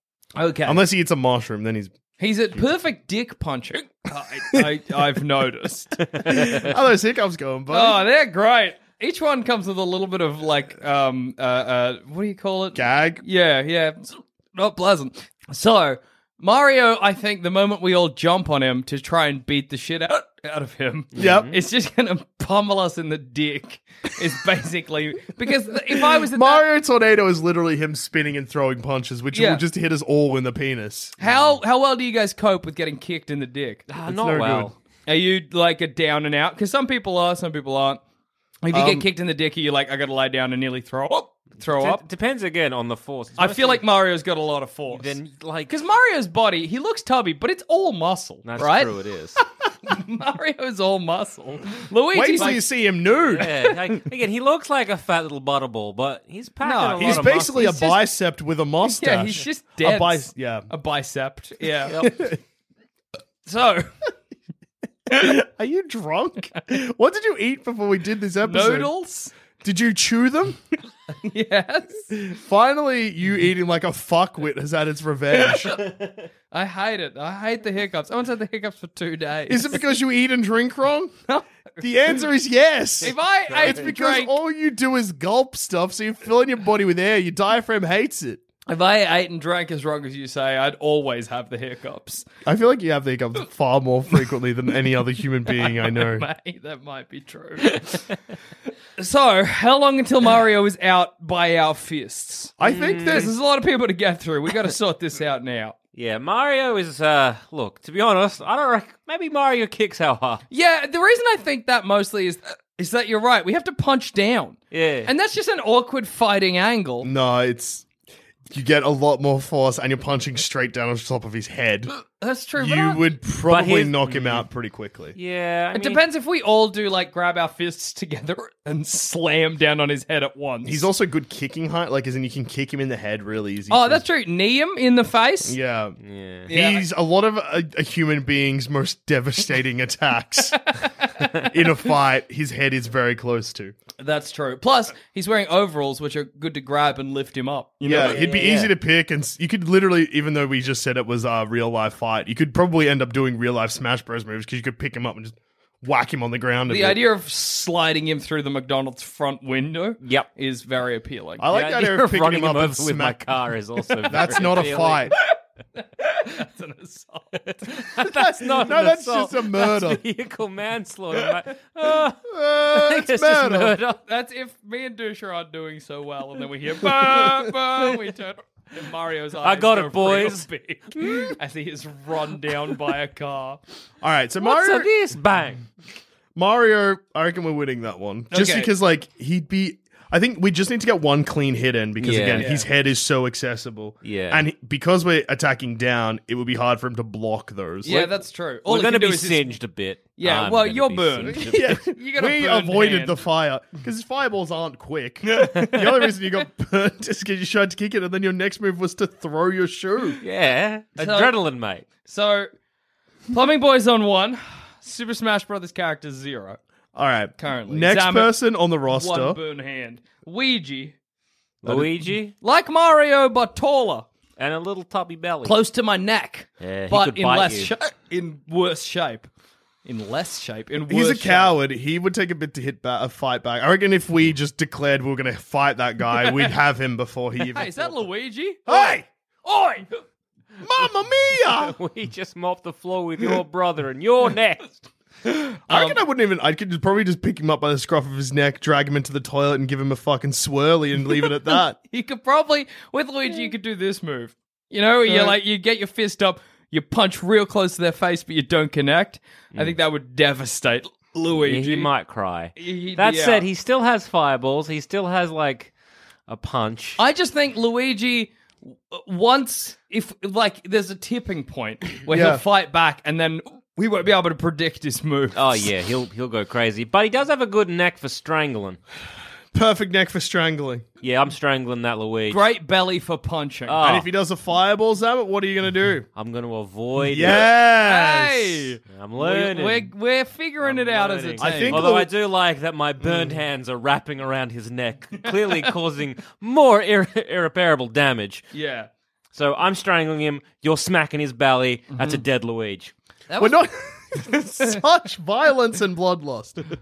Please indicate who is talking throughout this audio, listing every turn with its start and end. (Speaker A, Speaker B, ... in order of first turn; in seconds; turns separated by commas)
Speaker A: 0.3-0.8, Speaker B: 0.6-2.6, Speaker A: 2.2-6.6, Speaker C: 6.2-6.6, Speaker B: 6.3-8.0, Speaker A: 7.7-26.6, Speaker B: 12.7-13.2, Speaker B: 21.1-21.5, Speaker C: 21.1-21.5, Speaker B: 25.9-31.1, Speaker A: 29.3-29.6, Speaker A: 31.2-33.9, Speaker C: 31.2-31.6, Speaker C: 33.9-34.7, Speaker B: 34.0-34.7, Speaker A: 35.0-38.0, Speaker A: 38.6-42.0, Speaker B: 38.7-39.0, Speaker C: 41.6-43.8, Speaker A: 43.4-45.1, Speaker C: 44.9-45.7, Speaker A: 45.7-52.6, Speaker C: 48.4-49.4, Speaker B: 52.1-53.7, Speaker C: 53.3-57.8, Speaker A: 56.6-58.0, Speaker B: 57.0-60.7, Speaker A: 58.8-62.3, Speaker A: 63.4-63.9, Speaker B: 65.2-68.9, Speaker A: 68.4-69.3, Speaker B: 69.6-70.6, Speaker A: 71.2-72.1, Speaker B: 72.1-75.8, Speaker A: 76.5-79.8, Speaker B: 79.5-81.1, Speaker B: 81.8-88.4, Speaker A: 83.0-84.3, Speaker C: 83.5-83.8, Speaker A: 88.7-92.2, Speaker B: 92.5-96.2, Speaker A: 95.5-98.0, Speaker A: 99.0-105.8, Speaker B: 102.6-103.3, Speaker C: 102.6-103.3, Speaker C: 105.9-110.4, Speaker A: 110.5-117.1, Speaker C: 114.7-115.1, Speaker B: 117.0-117.8, Speaker B: 118.5-121.9, Speaker A: 122.2-123.0, Speaker B: 122.6-125.2, Speaker C: 123.5-124.4, Speaker C: 125.1-126.0, Speaker A: 125.7-130.8, Speaker B: 130.6-134.0, Speaker A: 133.7-135.6, Speaker B: 135.4-136.0, Speaker C: 136.0-136.5, Speaker A: 136.5-136.8, Speaker B: 136.5-140.6, Speaker B: 141.4-143.7, Speaker A: 144.0-148.3, Speaker B: 147.8-157.0, Speaker C: 148.0-148.7, Speaker A: 156.7-161.4, Speaker C: 160.0-160.3, Speaker B: 161.4-163.3, Speaker C: 161.5-165.1, Speaker B: 164.1-165.1, Speaker A: 165.2-167.4, Speaker C: 167.4-174.0, Speaker B: 168.0-170.0, Speaker B: 172.3-173.8, Speaker A: 174.1-183.6, Speaker C: 177.0-177.4, Speaker C: 179.4-181.4, Speaker B: 184.0-184.9, Speaker C: 184.4-185.7, Speaker B: 186.3-198.1, Speaker A: 188.3-188.7, Speaker C: 192.0-192.5, Speaker A: 192.3-192.7, Speaker C: 194.0-194.4, Speaker A: 197.8-199.5, Speaker C: 198.6-201.8, Speaker A: 200.2-203.2, Speaker B: 201.3-210.2, Speaker A: 205.3-205.8, Speaker C: 210.2-211.9, Speaker A: 211.0-211.3, Speaker A: 211.9-212.5, Speaker A: 213.3-216.6, Speaker B: 216.9-219.4, Speaker A: 217.4-218.3, Speaker A: 218.9-220.9, Speaker C: 221.6-222.3, Speaker B: 221.6-221.9, Speaker A: 222.4-224.1, Speaker C: 224.4-225.6, Speaker A: 225.4-229.3, Speaker C: 226.6-227.7, Speaker A: 229.8-231.5, Speaker B: 230.9-237.9, Speaker A: 237.5-239.9, Speaker B: 238.7-239.1, Speaker B: 240.6-241.8, Speaker C: 241.4-244.8, Speaker A: 245.2-246.0, Speaker B: 245.7-251.8, Speaker A: 251.8-261.9, Speaker C: 261.4-265.7, Speaker A: 262.6-263.5, Speaker C: 266.3-267.0, Speaker A: 267.0-275.7, Speaker B: 272.1-272.4, Speaker C: 275.3-278.8, Speaker B: 279.5-280.8, Speaker C: 281.0-282.4, Speaker A: 282.3-283.8, Speaker C: 283.7-284.1, Speaker B: 283.8-286.1, Speaker C: 286.1-287.5, Speaker B: 287.0-288.7, Speaker A: 287.8-291.9, Speaker C: 288.9-289.9, Speaker C: 290.6-298.4, Speaker B: 291.4-292.1, Speaker A: 295.2-295.7, Speaker A: 298.5-298.9, Speaker C: 299.3-302.9, Speaker A: 303.3-304.7, Speaker B: 303.4-306.6